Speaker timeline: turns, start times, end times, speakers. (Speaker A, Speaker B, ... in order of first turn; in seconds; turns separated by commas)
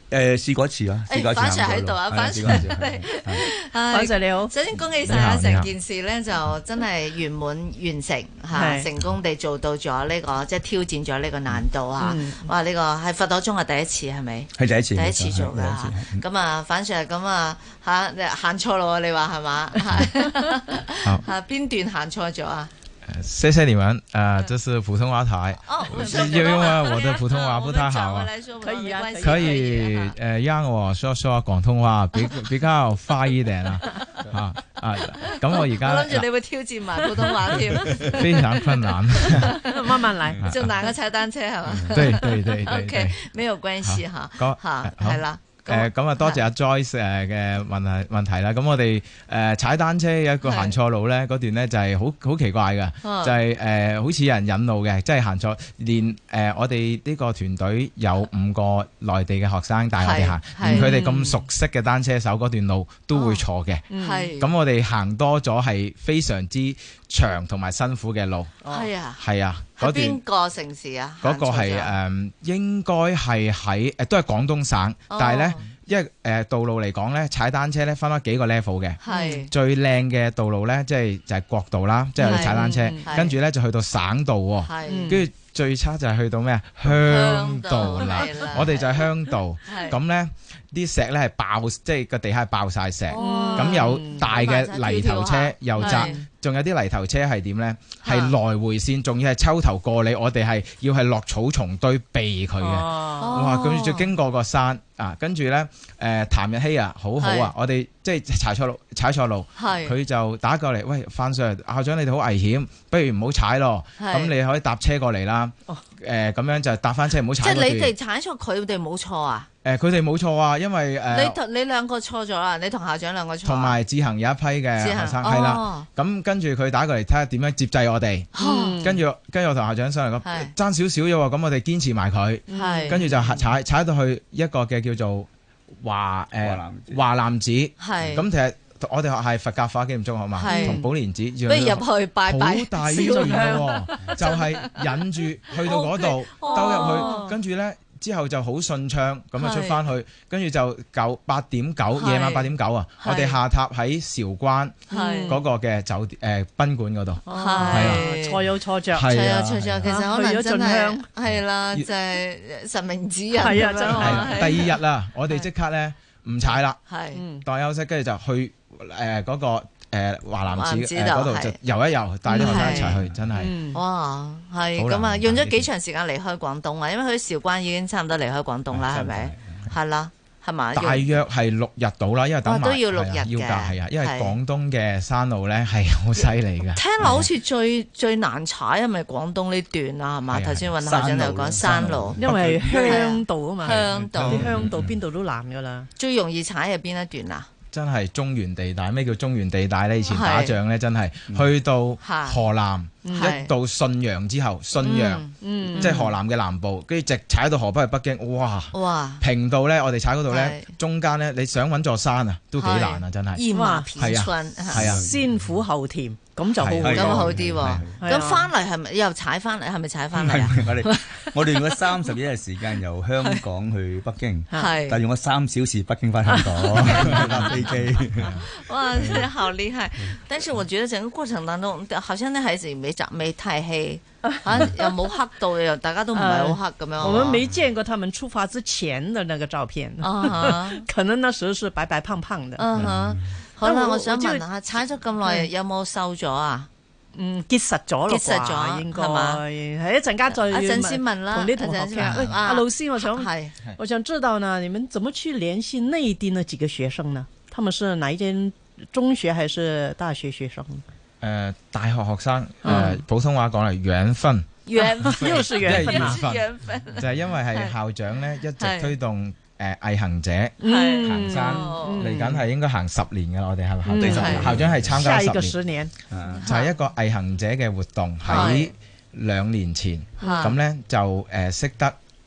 Speaker A: 0.1-3.5, Speaker B: 1.1-22.7, Speaker C: 3.9-4.5, Speaker D: 5.0-5.7, Speaker C: 8.5-8.9, Speaker C: 12.0-12.5, Speaker A: 14.6-16.2, Speaker D: 23.1-28.3, Speaker B: 25.6-30.1, Speaker C: 28.6-29.5, Speaker D: 29.2-36.2, Speaker B: 35.5-46.4, Speaker D: 38.0-39.6, Speaker C: 39.6-40.4, Speaker A: 41.7-42.0, Speaker D: 41.9-43.1, Speaker D: 43.8-70.2, Speaker B: 50.4-50.8, Speaker B: 53.0-53.4, Speaker B: 60.0-61.0, Speaker C: 60.7-61.4, Speaker B: 63.1-63.4, Speaker C: 63.9-64.3, Speaker B: 64.0-64.5, Speaker C: 68.6-68.9, Speaker B: 68.7-69.2, Speaker B: 69.8-71.9, Speaker D: 71.2-117.9, Speaker B: 75.1-75.7, Speaker B: 79.0-79.5, Speaker C: 82.2-83.2, Speaker B: 82.2-83.4, Speaker B: 84.6-85.2, Speaker C: 84.8-85.2, Speaker B: 86.8-89.1, Speaker B: 89.6-90.0, Speaker B: 93.1-96.2, Speaker C: 93.1-94.3, Speaker C: 95.8-96.3, Speaker B: 98.0-98.3, Speaker C: 102.6-103.4, Speaker B: 103.2-104.1, Speaker B: 107.2-107.5, Speaker B: 109.5-110.0, Speaker B: 114.0-114.3, Speaker B: 117.4-119.5, Speaker D: 119.6-121.4, Speaker B: 121.1-123.8, Speaker D: 123.4-158.1, Speaker B: 124.8-125.9, Speaker B: 128.3-128.9, Speaker C: 128.4-129.0, Speaker B: 130.2-130.5, Speaker C: 132.5-133.4, Speaker B: 132.5-133.1, Speaker A: 136.4-137.0, Speaker B: 137.8-138.3, Speaker B: 140.3-140.9, Speaker C: 140.5-140.8, Speaker B: 141.4-145.0, Speaker C: 142.9-144.3, Speaker B: 145.6-147.3, Speaker C: 146.5-147.4, Speaker B: 149.4-149.8, Speaker B: 151.9-153.4, Speaker C: 154.9-155.4, Speaker B: 154.9-155.4, Speaker C: 157.2-159.1, Speaker B: 157.3-158.5, Speaker D: 158.9-159.9, Speaker B: 159.1-164.8, Speaker C: 159.8-161.1, Speaker C: 163.3-164.7, Speaker D: 163.9-166.8, Speaker B: 166.8-167.2, Speaker C: 167.1-167.4, Speaker D: 167.4-173.5, Speaker B: 170.5-171.6, Speaker B: 172.3-173.0, Speaker C: 172.3-172.8, Speaker C: 173.3-173.8, Speaker B: 173.7-181.1, Speaker D: 174.7-175.7, Speaker A: 178.7-179.6, Speaker D: 180.7-187.3, Speaker B: 182.4-184.3, Speaker B: 186.7-192.2, Speaker D: 190.3-190.7, Speaker A: 190.8-192.9, Speaker C: 192.2-195.9, Speaker B: 192.8-194.5, Speaker A: 193.6-195.0, Speaker B: 195.9-197.5, Speaker D: 197.7-215.1, Speaker B: 200.1-200.6, Speaker B: 202.0-202.4, Speaker C: 203.0-203.3, Speaker B: 203.1-203.5, Speaker B: 204.8-206.1, Speaker C: 205.3-206.0, Speaker B: 208.7-209.2, Speaker B: 210.3-210.7, Speaker B: 212.6-214.9, Speaker C: 213.5-214.0, Speaker A: 214.8-215.1, Speaker C: 214.9-217.4, Speaker D: 216.6-217.8, Speaker A: 216.7-218.0, Speaker B: 216.8-221.8, Speaker C: 218.0-218.5, Speaker A: 220.1-228.4, Speaker C: 224.5-224.8, Speaker B: 224.5-225.0, Speaker C: 226.2-227.5, Speaker B: 226.7-227.2, Speaker D: 227.0-227.5, Speaker B: 228.2-237.4, Speaker A: 228.9-229.3, Speaker C: 234.4-234.9, Speaker C: 236.1-242.7, Speaker B: 240.0-240.8, Speaker B: 242.6-246.7, Speaker A: 242.8-243.1, Speaker C: 243.6-244.5, Speaker C: 245.2-245.5, Speaker C: 247.1-260.8, Speaker B: 248.1-249.4, Speaker B: 250.3-253.6, Speaker D: 252.0-252.3, Speaker D: 261.2-275.6, Speaker C: 262.6-263.0, Speaker B: 264.6-267.7, Speaker C: 264.7-266.2, Speaker B: 268.6-268.9, Speaker C: 270.6-272.2, Speaker B: 270.6-272.1, Speaker C: 273.8-274.4, Speaker A: 273.9-275.0, Speaker B: 274.0-274.6, Speaker C: 274.9-275.9, Speaker A: 276.1-276.4, Speaker B: 276.3-276.7, Speaker D: 276.4-281.9, Speaker B: 278.3-278.7, Speaker C: 280.2-280.5, Speaker B: 280.2-280.6